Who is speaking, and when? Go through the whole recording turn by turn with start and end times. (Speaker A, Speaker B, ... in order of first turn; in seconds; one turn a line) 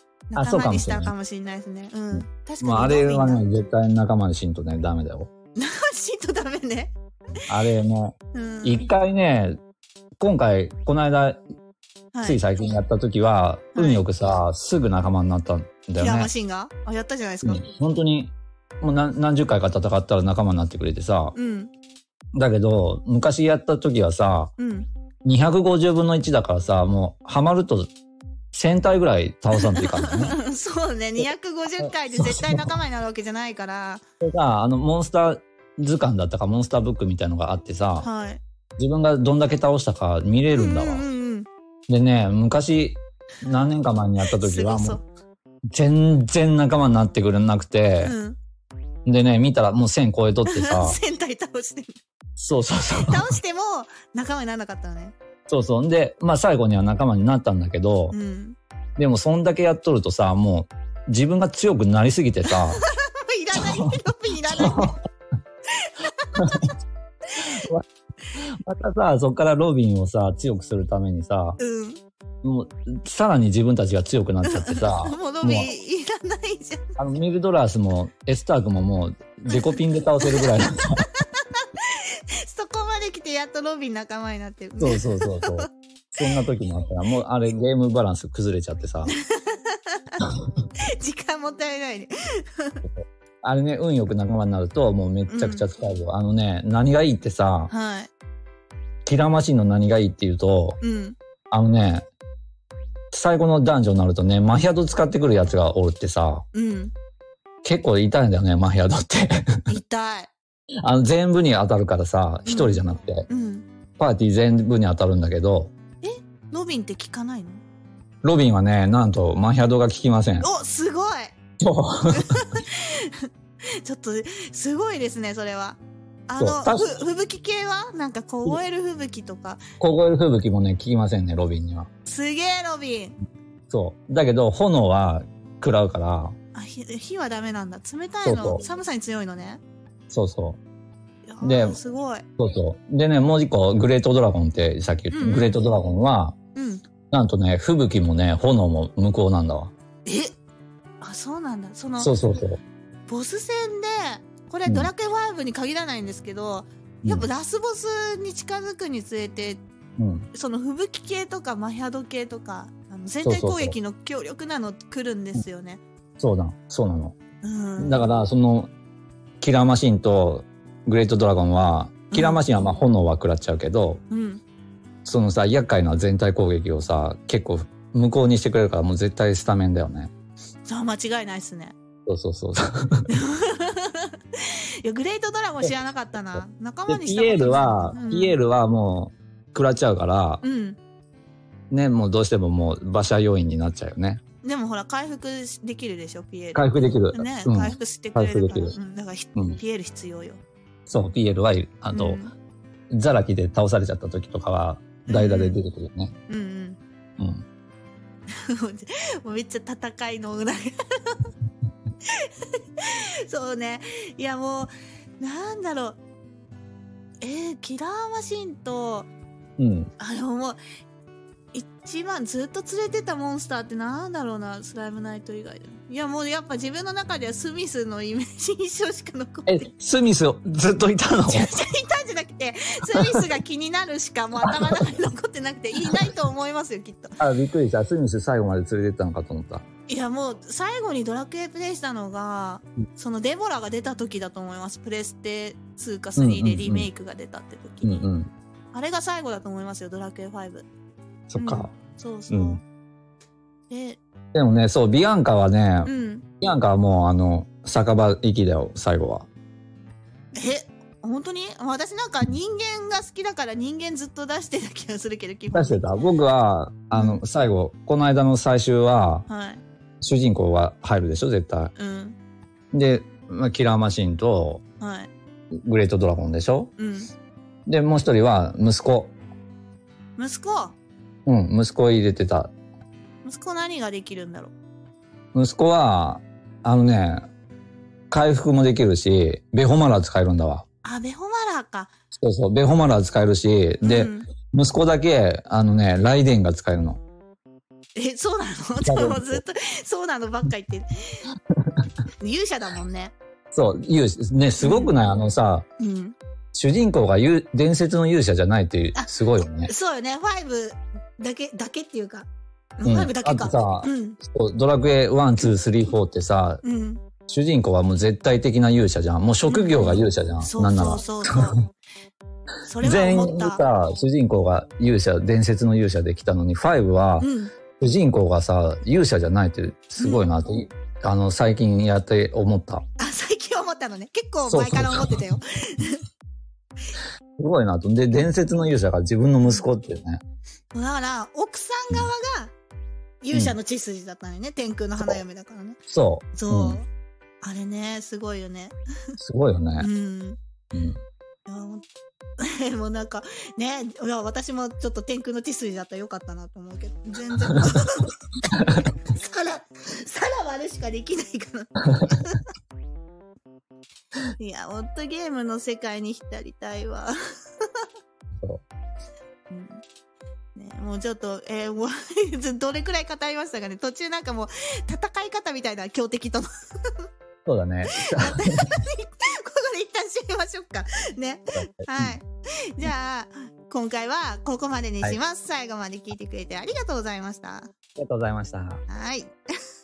Speaker A: 0.3-3.5
Speaker B: 0.3-1.1
Speaker B: 2.1-5.3
Speaker A: 5.6-6.9
Speaker B: 7.5-9.6
Speaker A: 8.3-8.9
Speaker B: 10.2-11.4
Speaker A: 12.1-12.4
Speaker B: 12.2-16.3
Speaker A: 13.7-14.0
Speaker A: 16.0-17.6
Speaker B: 17.4-21.3
Speaker A: 21.3-21.7
Speaker B: 22.3-24.5
Speaker A: 24.6-24.9
Speaker B: 25.2-27.9
Speaker B: 28.5-30.4
Speaker A: 29.6-34.0
Speaker B: 31.8-32.7
Speaker B: 34.2-38.1
Speaker A: 38.0-38.4
Speaker B: 38.8-41.0
Speaker A: 40.5-41.5
Speaker B: 41.9-45.0
Speaker A: 44.2-45.0
Speaker B: 45.7-48.1
Speaker A: 48.0-48.4
Speaker B: 49.0-51.0
Speaker A: 50.5-52.0
Speaker B: 52.4-53.3
Speaker A: 53.0-55.1
Speaker B: 55.5-58.1
Speaker A: 58.1-58.5
Speaker B: 59.0-62.8
Speaker A: 62.5-65.0
Speaker B: 63.5-65.0
Speaker A: 65.7-66.7
Speaker B: 66.3-66.7
Speaker A: 67.3-67.7
Speaker B: 67.3-67.8
Speaker B: 68.4-71.6
Speaker A: 71.6-72.0
Speaker B: 72.4-75.7
Speaker A: 74.4-77.0
Speaker B: 77.0-81.1
Speaker A: 79.5-85.7
Speaker B: 84.8-89.2
Speaker A: 89.0-90.2
Speaker B: 90.2-90.5
Speaker A: 90.8-92.8
Speaker B: 92.8-97.7
Speaker A: 95.3-95.7
Speaker A: 97.7-98.1
Speaker B: 99.0-100.8
Speaker A: 100.8-101.2
Speaker B: 101.5-102.0
Speaker B: 103.1-106.4
Speaker A: 106.5-106.9
Speaker B: 107.6-109.6
Speaker A: 109.7-110.3
Speaker B: 110.8-113.2
Speaker A: 112.5-113.7
Speaker B: 114.0-115.7
Speaker A: 116.0-117.6
Speaker B: 118.2-120.5
Speaker A: 120.4-121.3
Speaker B: 121.6-122.4
Speaker A: 122.1-129.6
Speaker B: 126.4-126.9
Speaker B: 129.8-131.9
Speaker A: 132.1-133.1
Speaker B: 133.7-136.3
Speaker A: 136.5-139.6
Speaker B: 138.2-138.6
Speaker B: 140.1-140.6
Speaker A: 141.3-142.2
Speaker B: 141.4-141.8
Speaker B: 142.4-146.3
Speaker A: 145.1-145.6
Speaker A: 146.5-146.8
Speaker B: 147.1-149.7
Speaker A: 150.1-150.3
Speaker A: 151.0-152.1
Speaker B: 152.0-152.6
Speaker A: 153.1-159.6
Speaker B: 160.0-160.3
Speaker A: 160.3-165.8
Speaker B: 163.2-163.8
Speaker B: 166.2-167.2
Speaker A: 167.4-168.1
Speaker B: 167.8-168.7
Speaker B: 169.4-174.0
Speaker A: 172.1-172.8
Speaker A: 174.1-174.4
Speaker B: 175.0-180.1
Speaker A: 180.7-181.7
Speaker B: 182.1-183.1
Speaker A: 183.1-188.4
Speaker B: 186.3-190.4
Speaker A: 190.4-190.8
Speaker B: 191.7-194.2
Speaker A: 194.4-200.4
Speaker B: 196.5-198.7
Speaker B: 200.9-202.2
Speaker A: 201.9-202.3
Speaker B: 202.9-206.1
Speaker A: 205.1-205.6
Speaker A: 206.3-206.8
Speaker B: 207.2-207.4
Speaker A: 208.3-211.3
Speaker A: 212.0-216.0
Speaker A: 217.2-219.1
Speaker B: 219.6-219.9
Speaker A: 220.0-220.6
Speaker A: 221.5-229.7
Speaker B: 229.5-231.5
Speaker A: 231.3-237.2
Speaker B: 232.9-233.3
Speaker B: 234.4-234.8
Speaker B: 237.2-239.6
Speaker A: 239.9-248.1
Speaker B: 246.2-246.9
Speaker B: 247.8-248.3
Speaker A: 248.7-250.7
Speaker B: 251.3-251.7
Speaker A: 251.4-252.6
Speaker B: 252.3-252.6
Speaker A: 253.7-254.0
Speaker B: 254.3-255.9
Speaker A: 255.8-256.3
Speaker B: 256.4-259.3
Speaker A: 260.3-265.8
Speaker B: 265.5-269.2
Speaker A: 266.9-267.2
Speaker A: 269.3-269.6
Speaker B: 270.0-271.7
Speaker A: 271.8-272.1
Speaker B: 272.7-274.6
Speaker A: 274.8-275.1
Speaker B: 275.5-276.7
Speaker A: 276.8-277.1
Speaker B: 277.7-279.1
Speaker A: 280.2-280.8
Speaker B: 281.2-282.5
Speaker A: 283.2-284.5
Speaker B: 285.3-287.3
Speaker B: 288.1-290.6
Speaker A: 290.8-291.9
Speaker B: 292.1-297.0
Speaker A: 293.8-294.3
Speaker A: 297.9-301.3
Speaker B: 298.8-299.4
Speaker B: 301.5-301.9
Speaker A: 302.2-303.1
Speaker B: 303.5-305.6
Speaker A: 304.6-304.9
Speaker A: 305.8-306.1
Speaker B: 306.5-309.7
Speaker A: 308.9-312.3
Speaker A: 312.8-314.2
Speaker B: 312.8-316.6
Speaker A: 316.6-317.0
Speaker B: 317.3-321.5
Speaker A: 319.5-321.6
Speaker A: 322.6-323.6
Speaker B: 322.8-332.9
Speaker A: 327.2-327.5
Speaker A: 330.0-330.2
Speaker A: 333.0-336.0
Speaker B: 334.5-335.2
Speaker B: 337.4-340.2
Speaker A: 340.7-342.5
Speaker A: 343.2-345.8
Speaker B: 345.9-346.8
Speaker A: 346.3-346.9
Speaker A: 347.4-348.7
Speaker B: 349.2-349.9
Speaker A: 349.8-350.4
Speaker B: 350.7-351.0
Speaker A: 351.5-351.8
Speaker A: 352.4-362.4
Speaker B: 357.5-357.8
Speaker B: 358.5-358.9
Speaker B: 361.8-362.2
Speaker A: 364.4-367.8
Speaker A: 369.5-369.8
Speaker A: 370.6-377.1
Speaker B: 377.4-378.8
Speaker A: 377.9-387.7
Speaker B: 381.6-382.1
Speaker B: 387.9-388.8
Speaker A: 388.9-389.3